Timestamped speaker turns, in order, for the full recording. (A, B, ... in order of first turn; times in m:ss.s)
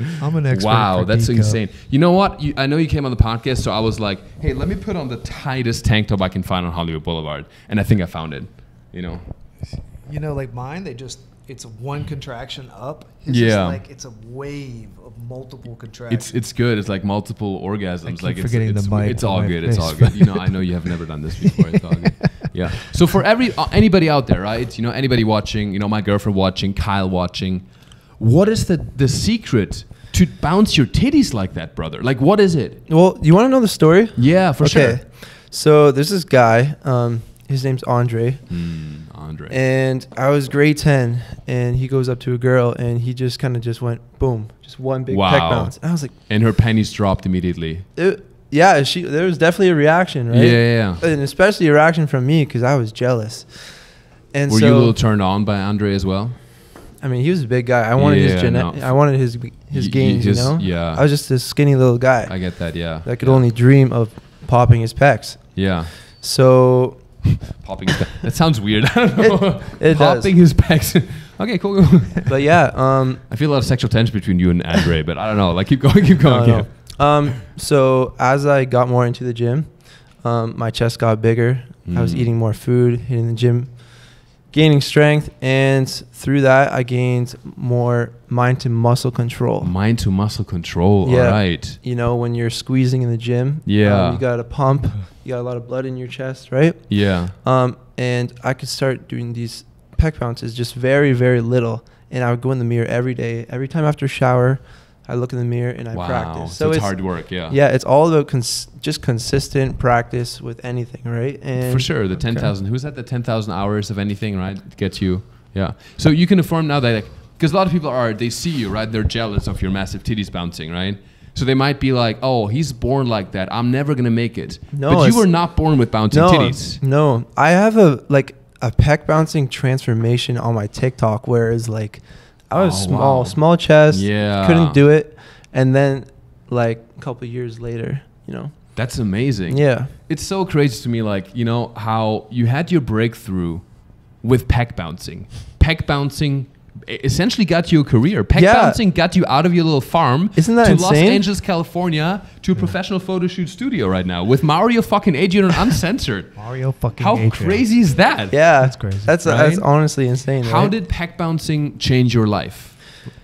0:00.2-0:01.6 A
0:00.4-0:09.3 B
0:10.0-0:16.3 A
0:13.2-0:13.8 B
0:16.1-0:32.9 B
0:18.0-0:22.4 A
0:32.9-0:46.1 C
0:34.2-0:35.0 B
0:38.5-0:39.6 B
0:45.1-0:47.9 B
0:48.0-0:55.0 C
0:50.3-0:51.0 B
0:54.5-0:56.4 B
0:57.0-1:07.4 C
0:58.0-1:01.0 B
1:02.3-1:03.5 B
1:05.5-1:06.0 B
1:07.6-1:17.0 B
1:09.2-1:10.4 C
1:12.3-1:13.3 C
1:16.2-1:29.8 C
1:21.8-1:22.3 B
1:29.6-1:31.8 B
1:31.0-1:52.2 C
1:33.6-1:34.2 B
1:36.9-1:37.4 B
1:45.9-1:47.6 B
1:51.6-2:06.8 B
1:52.1-1:52.5 A
2:04.7-2:19.9 C
2:12.5-2:14.8 B
2:18.8-2:38.5 B
2:28.3-2:28.8 C
2:30.3-2:31.3 C
2:36.3-2:37.8 A
2:38.0-2:40.8 C
2:38.5-2:39.6 A
2:39.2-2:42.9 B